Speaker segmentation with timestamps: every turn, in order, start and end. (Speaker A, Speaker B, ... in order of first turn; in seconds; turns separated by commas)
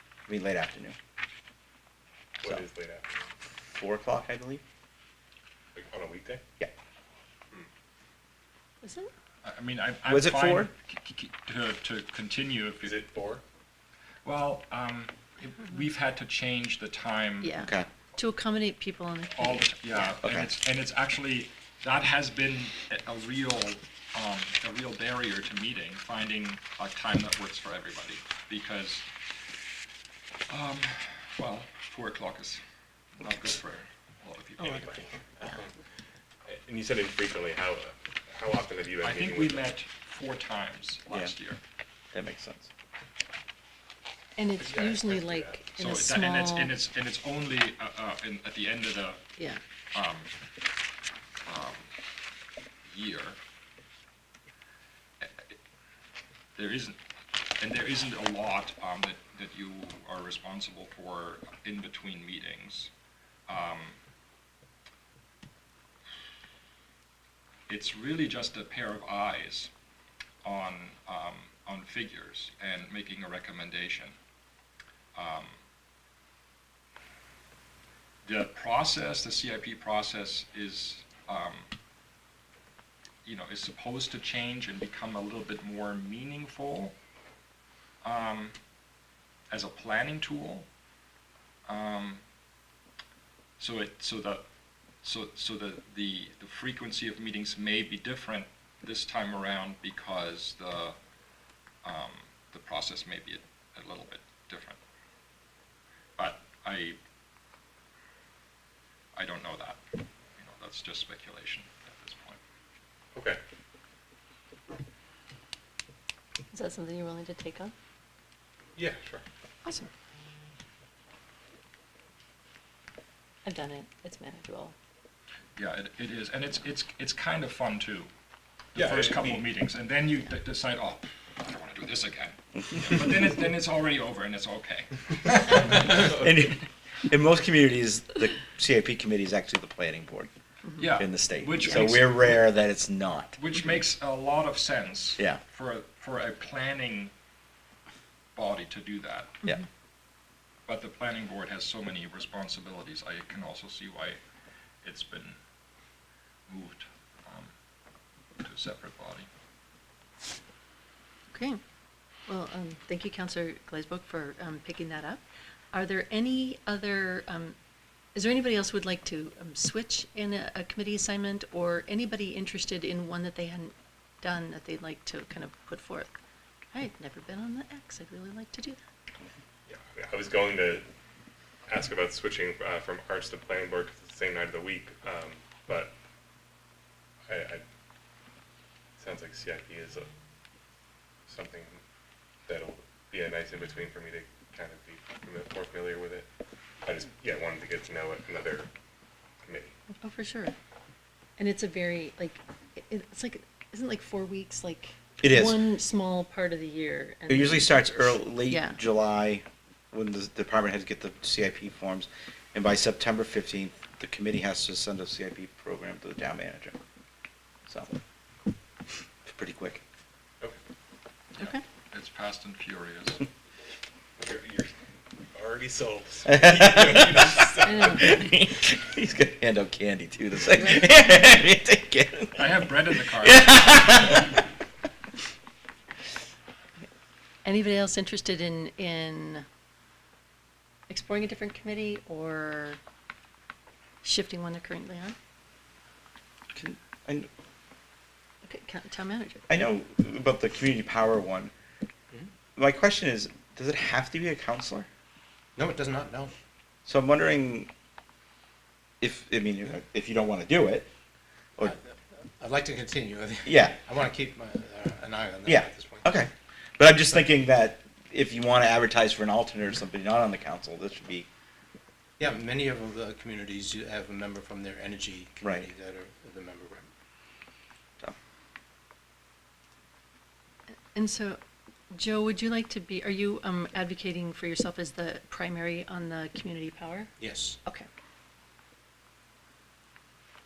Speaker A: 0.3-0.9, Speaker B: 2.4-3.1, Speaker A: 3.7-4.6, Speaker B: 5.7-6.4, Speaker C: 8.8-9.1, Speaker D: 9.4-13.0, Speaker A: 10.1-10.7, Speaker B: 12.8-13.4, Speaker D: 14.2-17.6, Speaker C: 17.4-20.2, Speaker A: 17.6-17.9, Speaker D: 19.3-29.1, Speaker A: 20.2-20.5, Speaker D: 30.5-32.6, Speaker D: 33.2-34.9, Speaker B: 34.8-35.7, Speaker B: 36.5-39.7, Speaker D: 39.0-41.6, Speaker A: 42.1-42.7, Speaker C: 44.4-46.8, Speaker B: 44.6-45.6, Speaker D: 45.8-49.2, Speaker C: 49.4-49.6, Speaker D: 49.9-50.3, Speaker D: 51.5-51.9, Speaker D: 52.8-53.4, Speaker D: 55.2-55.5, Speaker D: 56.5-57.0, Speaker D: 57.6-62.9, Speaker D: 63.5-64.0, Speaker D: 67.7-69.7, Speaker D: 70.4-74.1, Speaker D: 75.1-75.6, Speaker D: 78.2-81.7, Speaker D: 83.2-86.9, Speaker D: 88.0-88.5, Speaker D: 89.5-90.7, Speaker D: 91.7-92.2, Speaker D: 93.6-94.5, Speaker D: 95.0-101.0, Speaker D: 101.8-104.8, Speaker D: 106.2-107.0, Speaker D: 109.1-109.8, Speaker D: 110.3-112.4, Speaker B: 113.1-113.4, Speaker C: 116.5-117.7, Speaker B: 118.8-119.2, Speaker C: 119.6-119.9, Speaker C: 123.4-124.8, Speaker D: 125.5-128.1, Speaker D: 128.7-136.0, Speaker B: 128.7-129.4, Speaker A: 135.9-140.3, Speaker D: 140.8-142.4, Speaker A: 141.0-143.4, Speaker D: 143.4-147.1, Speaker D: 148.3-149.4, Speaker D: 150.7-154.2, Speaker D: 154.8-155.4, Speaker D: 156.5-157.5, Speaker D: 158.4-159.3, Speaker C: 161.3-161.6, Speaker C: 162.2-167.6, Speaker C: 168.1-176.2, Speaker C: 176.7-178.8, Speaker B: 179.7-180.9, Speaker B: 181.7-185.9, Speaker B: 187.3-187.6, Speaker B: 189.0-190.1, Speaker B: 191.2-191.8, Speaker B: 192.4-196.3, Speaker B: 196.8-198.7, Speaker B: 199.4-199.8, Speaker C: 200.0-200.5, Speaker C: 201.4-208.8, Speaker A: 205.2-205.7, Speaker A: 207.3-216.8, Speaker A: 217.7-218.0, Speaker A: 219.2-219.8, Speaker D: 221.4-223.2, Speaker C: 221.4-221.6, Speaker B: 224.2-224.7, Speaker B: 225.3-228.2, Speaker A: 226.3-227.3, Speaker C: 227.6-228.3, Speaker A: 227.9-234.4, Speaker C: 230.6-231.1, Speaker D: 232.3-234.3, Speaker C: 237.4-239.4, Speaker C: 240.9-242.8, Speaker C: 244.0-245.2, Speaker A: 246.5-247.3, Speaker C: 248.4-249.4, Speaker A: 249.5-251.5, Speaker A: 252.6-254.9, Speaker E: 255.6-256.3, Speaker A: 256.9-257.7, Speaker A: 259.0-260.9, Speaker E: 261.6-266.1, Speaker A: 263.4-263.8, Speaker A: 265.4-271.3, Speaker E: 272.2-276.9, Speaker A: 275.4-275.7, Speaker C: 280.9-281.4, Speaker C: 281.9-287.1, Speaker E: 287.2-287.6